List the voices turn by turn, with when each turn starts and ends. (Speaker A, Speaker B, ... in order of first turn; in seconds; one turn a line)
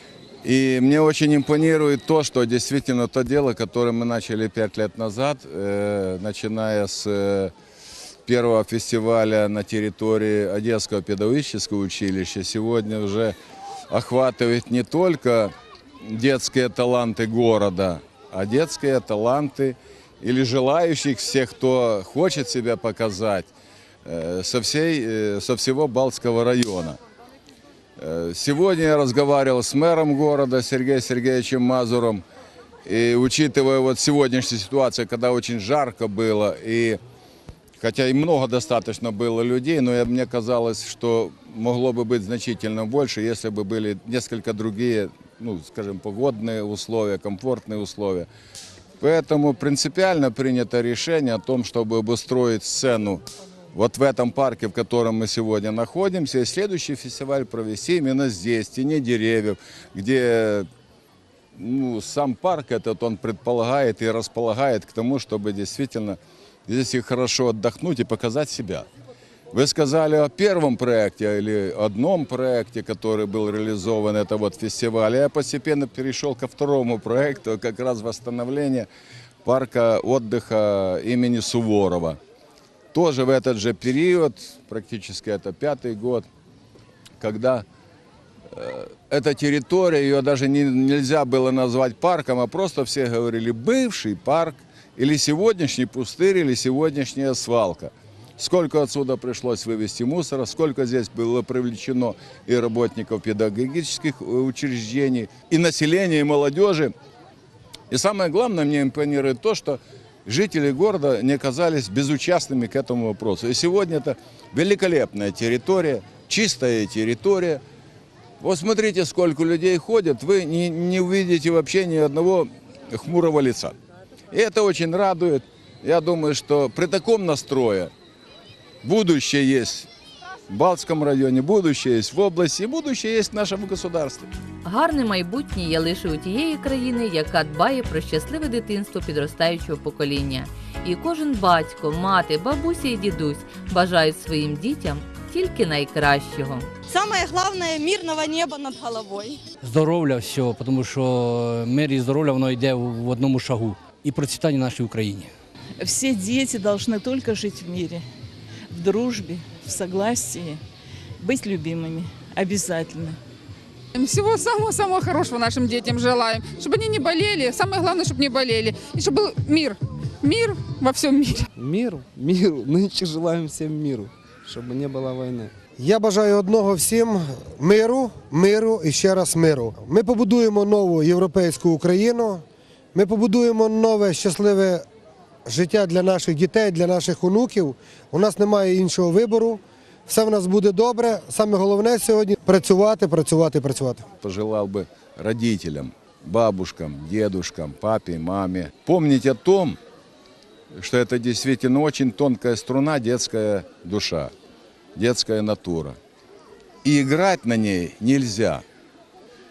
Speaker A: 0.4-7.5
Speaker A: 8.2-13.3
Speaker A: 13.9-23.5
Speaker A: 24.0-27.0
Speaker A: 28.0-32.2
Speaker A: 32.8-37.0
Speaker A: 37.8-48.3
Speaker A: 49.0-60.7
Speaker A: 61.5-68.9
Speaker A: 69.5-78.9
Speaker A: 79.4-82.2
Speaker A: 82.9-86.2
Speaker A: 87.2-87.6
Speaker A: 88.5-106.9
Speaker A: 107.9-117.6
Speaker A: 118.4-123.7
Speaker A: 124.3-127.9
Speaker A: 128.8-129.9
Speaker A: 130.5-134.3
Speaker B: 134.6-146.7
Speaker C: 146.9-149.4
Speaker D: 149.6-155.3
Speaker E: 155.8-158.0
Speaker E: 158.7-160.6
Speaker E: 161.2-163.2
Speaker F: 163.9-171.4
Speaker G: 171.6-175.5
Speaker H: 175.8-184.8
Speaker H: 185.4-194.0
Speaker A: 194.2-199.8
Speaker A: 200.7-204.3
Speaker A: 204.9-206.0
Speaker A: 206.8-208.6